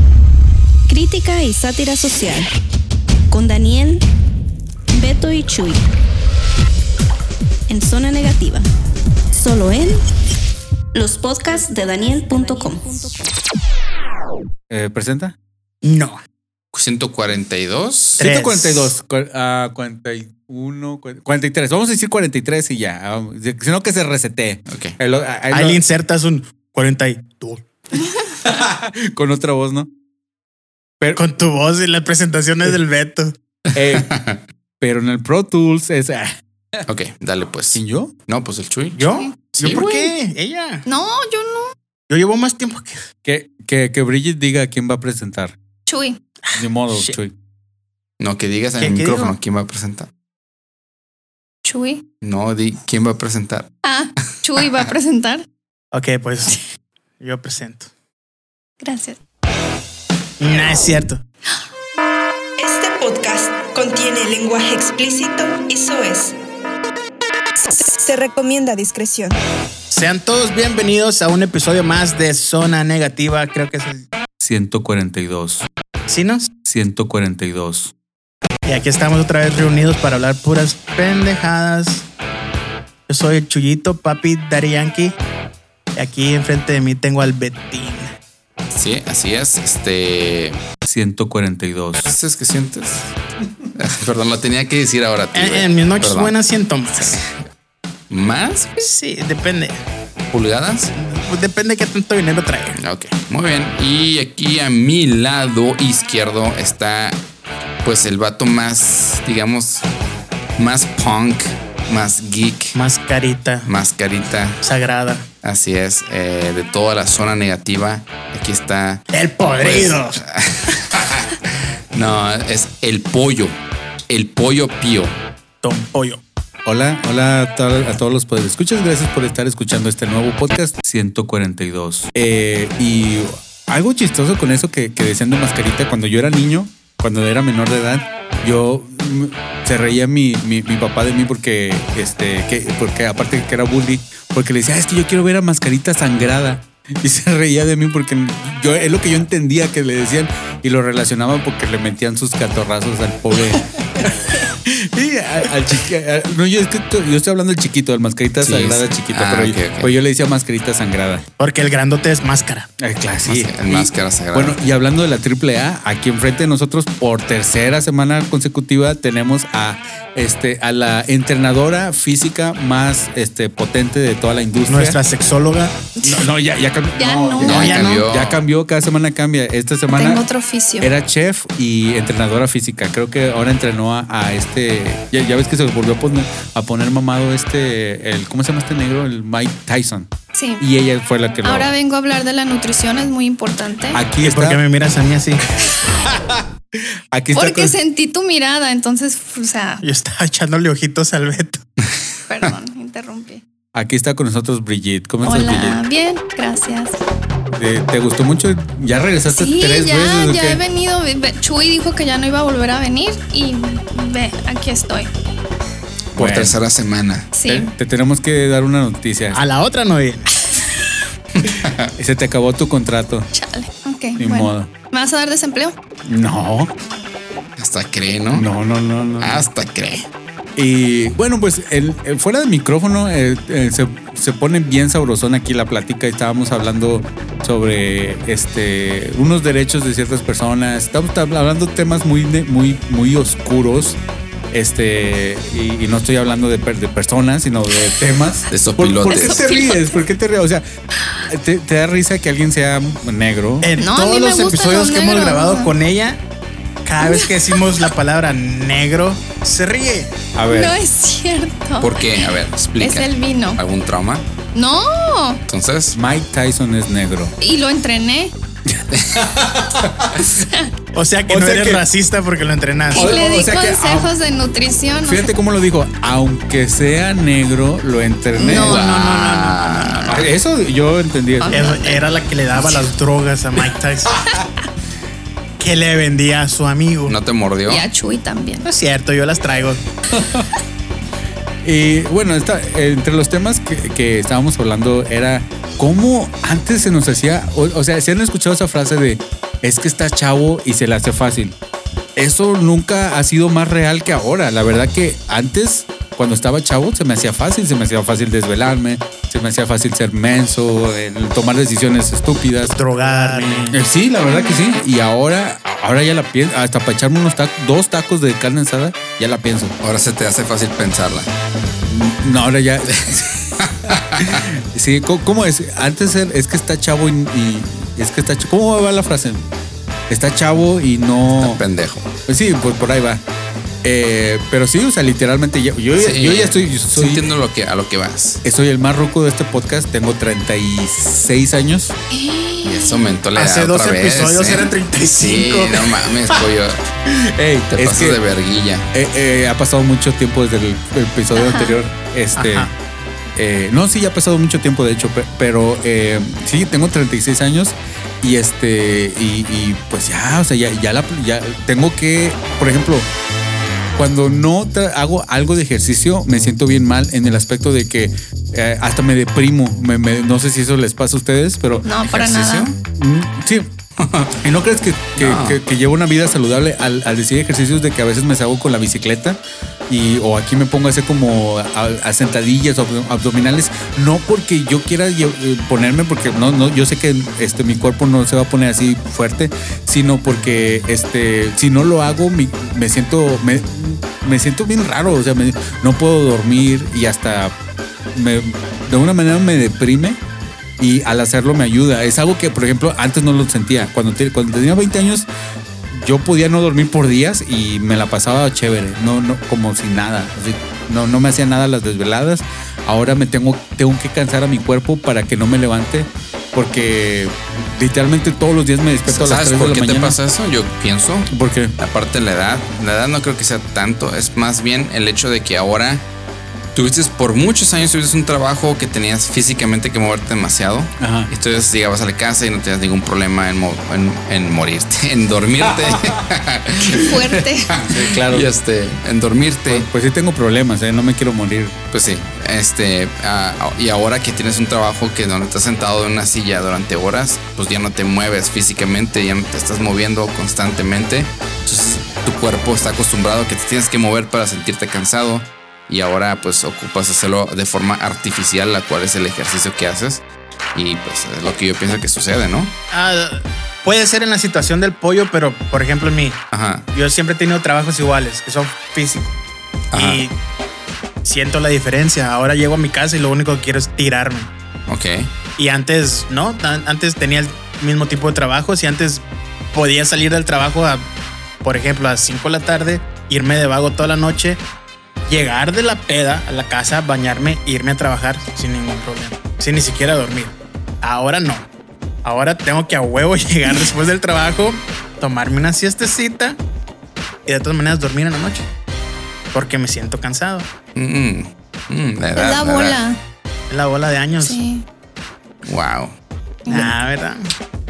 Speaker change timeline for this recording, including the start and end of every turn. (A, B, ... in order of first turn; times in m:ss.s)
0:00.9-0:02.5 A
0:03.3-0:04.0 A
0:04.9-0:05.8 A
0:07.7-0:08.6 A
0:09.3-0:10.0 A
0:10.9-0:13.3 A
0:14.7-0:15.4 B
0:15.8-0:16.2 C
0:16.7-0:18.3 D
0:18.2-0:18.9 C
0:18.2-0:25.8 B
0:24.7-0:25.0 D
0:25.5-0:27.6 C
0:28.4-0:29.9 B
0:31.1-0:33.4 C
0:33.7-0:34.1 B
0:33.8-0:34.4 D
0:34.8-0:36.9 B
0:36.9-0:39.1 D
0:37.7-0:38.1 B
0:39.0-0:40.8 C
0:39.6-0:40.1 D
0:40.9-0:41.7 E
0:42.1-0:43.0 C
0:43.2-0:45.6 B
0:45.9-0:46.2 E
0:46.5-0:47.2 C
0:46.6-0:47.3 B
0:48.2-0:50.1 D
0:48.8-0:49.4 C
0:51.6-0:52.0 E
0:52.2-0:53.7 D
0:53.8-0:55.4 E
0:55.9-0:56.6 C
0:57.2-0:57.9 C
0:58.8-0:59.2 E
1:00.4-1:01.2 C
1:02.6-1:06.4 F
1:07.6-1:09.4 F
1:09.9-1:14.1 C
1:14.4-1:15.7 B
1:16.1-1:16.5 C
1:16.6-1:17.9 B
1:18.6-1:22.0 C
1:23.1-1:25.2 C
1:26.0-1:28.1 C
1:28.7-1:30.6 D
1:30.8-1:32.1 B
1:32.1-1:33.1 D
1:33.8-1:36.4 D
1:35.4-1:37.2 C
1:36.9-1:37.2 D
1:38.1-1:38.7 D
1:38.8-1:39.8 C
1:40.3-1:40.9 D
1:41.0-1:42.8 C
1:42.8-1:47.2 D
1:47.8-1:49.9 D
1:50.6-1:52.8 D
1:52.8-1:53.7 C
1:53.7-1:54.6 D
1:54.6-1:55.2 C
1:55.4-1:59.0 D
1:59.1-2:00.2 C
1:59.6-2:01.4 D
2:01.9-2:03.5 D
2:04.1-2:05.1 D
2:05.6-2:06.2 C
2:06.6-2:41.2 B
2:38.4-2:39.9 D
2:41.4-2:42.7 C
2:42.8-2:55.0 B
2:43.3-2:44.6 D
2:54.7-2:56.1 C
2:56.1-3:00.2 B
2:57.0-2:57.6 E
2:57.4-2:58.4 D
2:57.5-2:58.0 C
2:59.9-3:00.9 E
3:00.8-3:11.7 B
3:10.3-3:10.6 E
3:11.4-3:14.0 E
3:13.9-3:14.6 B
3:14.2-3:15.4 C
3:16.0-3:17.8 B
3:17.3-3:19.8 E
3:19.8-3:21.6 C
3:22.3-3:23.4 E
3:23.7-3:25.8 B
3:25.2-3:27.0 E
3:27.5-3:30.6 B
3:29.3-3:35.1 E
3:36.2-3:36.6 B
3:36.2-3:37.3 D
3:37.3-3:37.7 E
3:37.5-3:39.4 B
3:39.3-3:40.3 C
3:41.4-3:41.9 D
3:42.0-3:43.3 B
3:43.3-3:45.8 E
3:44.2-3:44.7 B
3:46.0-3:46.7 B
3:47.6-3:48.5 D
3:48.3-3:49.4 B
3:49.2-3:50.1 D
3:50.6-4:04.0 B
4:04.5-4:10.6 B
4:08.5-4:09.4 D
4:09.1-4:10.0 E
4:11.3-4:13.7 B
4:13.6-4:16.2 C
4:13.8-4:15.7 E
4:16.8-4:20.2 C
4:17.0-4:17.6 E
4:20.4-4:20.8 B
4:20.5-4:22.3 E
4:21.8-4:24.3 D
4:22.8-4:23.6 E
4:24.6-4:25.4 E
4:25.5-4:26.0 D
4:25.9-4:27.3 B
4:27.4-4:28.3 E
4:28.7-4:30.1 B
4:28.9-4:29.2 D
4:30.2-4:30.7 E
4:30.9-4:33.2 C
4:31.3-4:31.9 B
4:32.9-4:34.1 B
4:32.9-4:35.3 E
4:35.0-4:38.8 B
4:38.3-4:40.1 E
4:38.5-4:40.1 D
4:40.0-4:41.6 B
4:41.4-4:42.0 E
4:41.5-4:44.4 C
4:45.6-4:47.2 C
4:47.1-4:47.9 D
4:47.7-4:48.7 E
4:48.6-4:49.8 C
4:50.1-4:50.5 B
4:51.6-5:01.6 B
5:02.2-5:19.8 B
5:12.7-5:13.8 C
5:14.3-5:14.6 E
5:19.8-5:21.3 D
5:21.9-5:29.4 B
5:23.0-5:24.4 D
5:30.1-5:31.6 B
5:31.3-5:32.1 D
5:32.3-5:33.2 B
5:33.8-5:37.2 B
5:36.0-5:38.4 D
5:38.4-5:42.0 B
5:42.1-5:43.0 E
5:42.6-5:46.8 D
5:43.4-5:45.9 C
5:47.0-5:48.2 B
5:47.7-5:48.9 D
5:48.9-5:52.7 B
5:51.4-5:51.8 E
5:52.4-5:52.7 C
5:53.4-6:03.1 B
6:04.0-6:11.9 B
6:11.8-6:12.7 E
6:12.0-6:12.7 D
6:13.0-6:13.7 B
6:14.0-6:14.3 D
6:14.4-6:37.5 B
6:15.2-6:15.6 D
6:38.1-6:40.2 B
6:40.8-6:45.3 B
6:45.9-7:00.2 B
6:59.1-7:06.0 D
7:01.3-7:01.8 B
7:06.8-7:17.2 D
7:11.0-7:11.3 B
7:15.7-7:16.2 B
7:16.8-7:17.8 E
7:17.7-7:19.9 D
7:17.8-7:18.5 B
7:19.7-7:21.8 B
7:21.9-7:42.7 D
7:42.9-7:46.4 C
7:46.5-7:46.9 D
7:46.9-7:49.4 C
7:49.9-7:50.2 D
7:49.9-7:50.4 C
7:51.2-7:54.5 C
7:54.9-7:55.3 D
7:55.6-8:01.1 C
8:01.6-8:04.6 C
8:05.3-8:11.7 C
8:12.2-8:16.6 C
8:17.5-8:18.7 C
8:19.5-8:20.7 C
8:21.0-8:23.0 D
8:22.4-8:23.2 E
8:23.7-8:24.6 C
8:24.4-8:24.8 E
8:25.6-8:26.2 D
8:26.6-8:26.9 E
8:26.7-8:27.5 C